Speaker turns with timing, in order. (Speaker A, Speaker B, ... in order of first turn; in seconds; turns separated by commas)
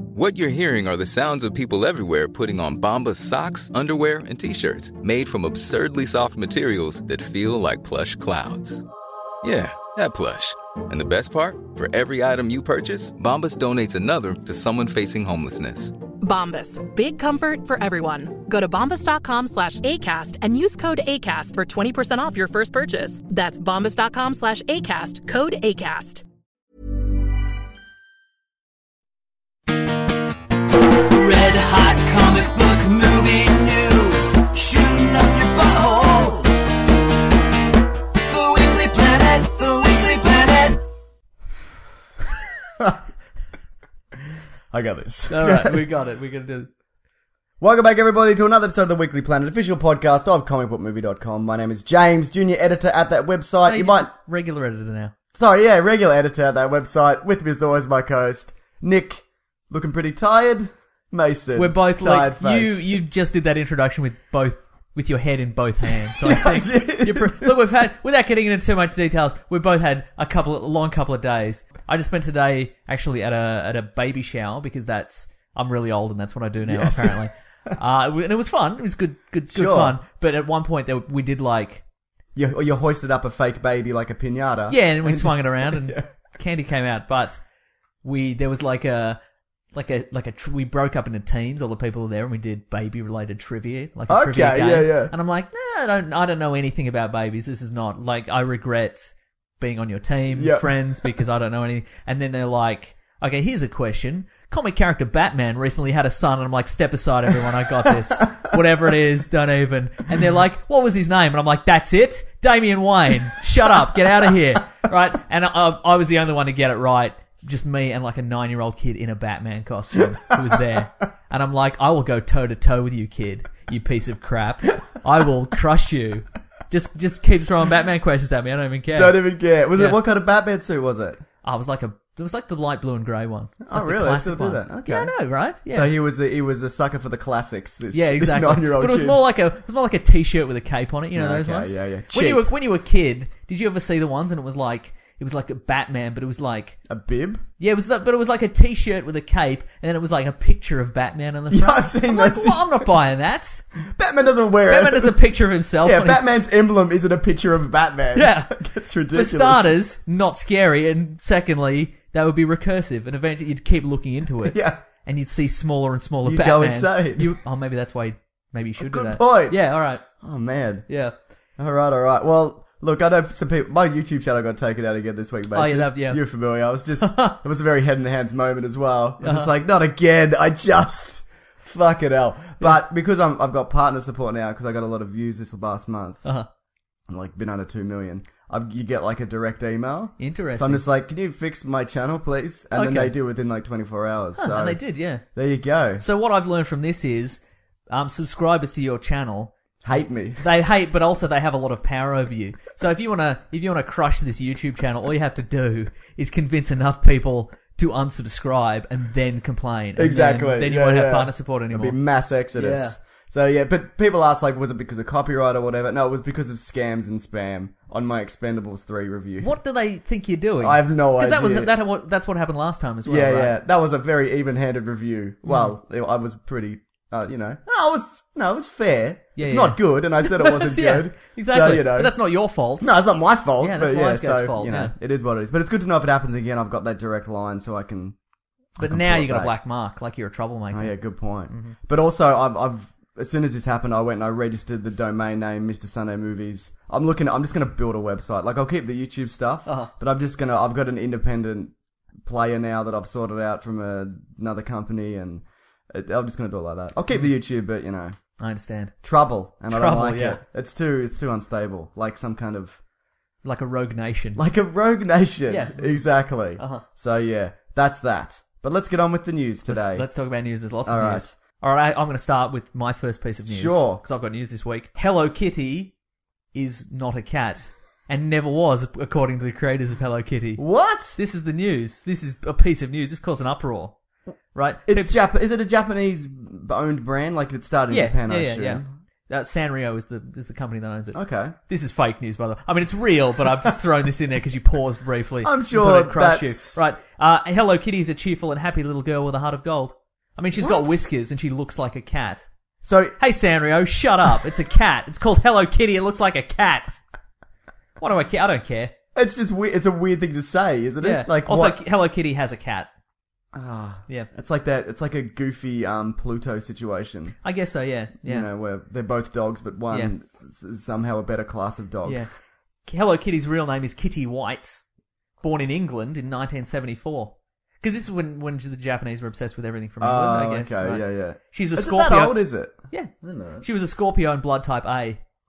Speaker A: 0.1-8.8, Speaker A: 9.4-15.9, Speaker B: 16.2-26.2, Speaker C: 31.0-36.5, Speaker C: 38.2-40.8, Speaker D: 44.7-45.9, Speaker E: 45.3-46.7, Speaker D: 47.6-54.1, Speaker E: 53.7-55.1, Speaker D: 55.3-62.9, Speaker E: 61.5-81.8, Speaker D: 66.2-67.5, Speaker D: 76.6-77.8, Speaker D: 79.5-80.0, Speaker D: 82.3-86.0, Speaker E: 84.7-87.4, Speaker E: 88.0-89.2, Speaker E: 89.7-130.0, Speaker D: 94.1-95.1, Speaker D: 100.3-100.7, Speaker D: 128.9-131.2, Speaker E: 131.4-135.9, Speaker D: 133.7-135.1, Speaker D: 135.7-139.2, Speaker E: 137.9-146.8, Speaker D: 141.1-142.5, Speaker D: 146.9-147.4, Speaker E: 147.6-153.6, Speaker D: 151.5-152.7, Speaker D: 153.9-155.2, Speaker E: 154.7-156.2, Speaker D: 155.8-159.7, Speaker E: 158.1-170.0, Speaker D: 164.4-164.8, Speaker D: 166.2-167.4, Speaker D: 168.8-169.6, Speaker D: 170.2-170.9, Speaker E: 170.9-171.1, Speaker D: 171.6-186.2, Speaker E: 175.5-176.2, Speaker E: 177.0-177.4, Speaker E: 179.2-179.5, Speaker D: 187.1-194.8, Speaker E: 190.2-190.8, Speaker E: 192.7-193.1, Speaker E: 194.4-195.3, Speaker D: 195.3-196.1, Speaker E: 196.0-199.5, Speaker D: 199.8-200.5, Speaker E: 200.4-212.0, Speaker D: 209.9-219.5, Speaker E: 212.6-212.9, Speaker E: 219.4-223.6, Speaker D: 220.6-221.7, Speaker D: 223.0-232.1, Speaker E: 225.4-225.7, Speaker E: 229.3-232.9, Speaker D: 232.8-238.2, Speaker E: 233.6-234.9, Speaker D: 238.8-239.5, Speaker E: 238.8-241.0, Speaker D: 240.7-258.1, Speaker E: 241.5-241.8, Speaker E: 249.7-249.9, Speaker E: 258.4-258.9, Speaker D: 259.0-262.8, Speaker E: 259.7-260.4, Speaker E: 263.4-264.4, Speaker D: 264.4-270.1, Speaker E: 265.5-266.8, Speaker E: 269.7-275.9, Speaker D: 270.8-271.3, Speaker D: 273.5-274.0, Speaker E: 276.5-283.9, Speaker D: 280.6-281.2, Speaker E: 284.5-285.1, Speaker D: 284.9-288.9, Speaker E: 287.9-302.4, Speaker D: 291.1-291.5, Speaker D: 295.4-296.8, Speaker D: 300.6-300.9, Speaker D: 302.8-303.2, Speaker E: 303.2-307.0, Speaker E: 308.0-308.9, Speaker D: 309.1-311.8, Speaker E: 311.0-312.9, Speaker D: 313.5-317.3, Speaker E: 317.4-318.5, Speaker D: 318.2-322.3, Speaker E: 322.0-322.3, Speaker E: 322.9-324.8, Speaker E: 325.4-335.2, Speaker D: 330.0-333.6